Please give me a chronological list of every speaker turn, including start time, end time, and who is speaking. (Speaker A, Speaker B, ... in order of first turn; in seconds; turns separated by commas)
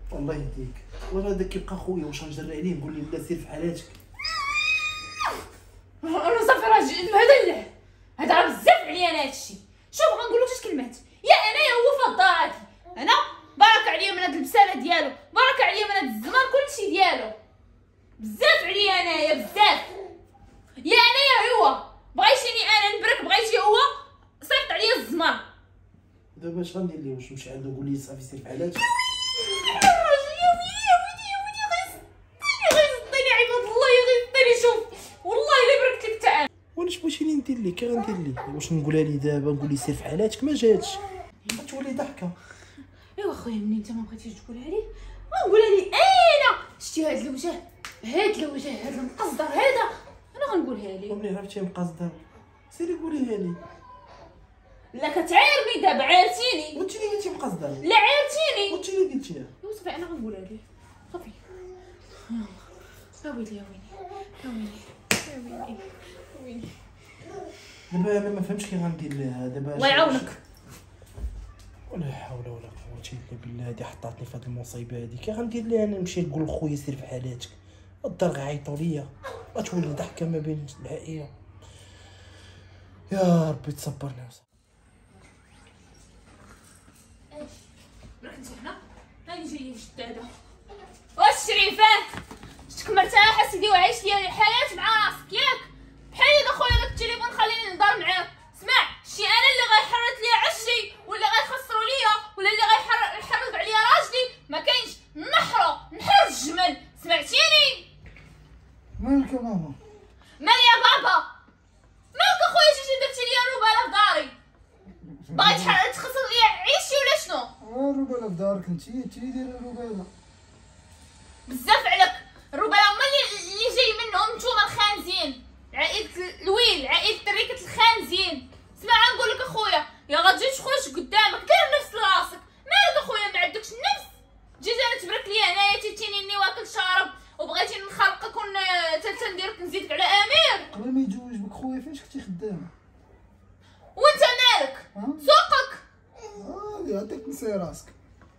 Speaker A: 0.1-4.0, Speaker B: 6.0-17.4, Speaker B: 18.2-19.9, Speaker B: 20.8-25.4, Speaker A: 26.3-28.8, Speaker B: 29.4-36.5, Speaker A: 36.7-42.3, Speaker B: 43.2-51.2, Speaker A: 51.1-53.6, Speaker B: 54.9-56.8, Speaker A: 56.7-57.8, Speaker B: 57.8-58.8, Speaker A: 58.7-59.5, Speaker B: 59.6-61.4, Speaker B: 62.3-62.6, Speaker B: 63.2-66.7, Speaker A: 67.9-70.3, Speaker B: 69.8-70.4, Speaker A: 71.9-81.3, Speaker A: 83.1-84.4, Speaker B: 88.2-90.3, Speaker B: 91.2-92.1, Speaker B: 92.7-107.9, Speaker C: 109.0-109.8, Speaker B: 110.4-111.2, Speaker B: 112.1-114.3, Speaker C: 115.0-115.8, Speaker B: 115.3-117.5, Speaker C: 117.6-120.1, Speaker B: 121.5-140.7, Speaker C: 140.7-142.7, Speaker B: 143.9-145.8, Speaker C: 144.9-145.3, Speaker C: 146.2-147.9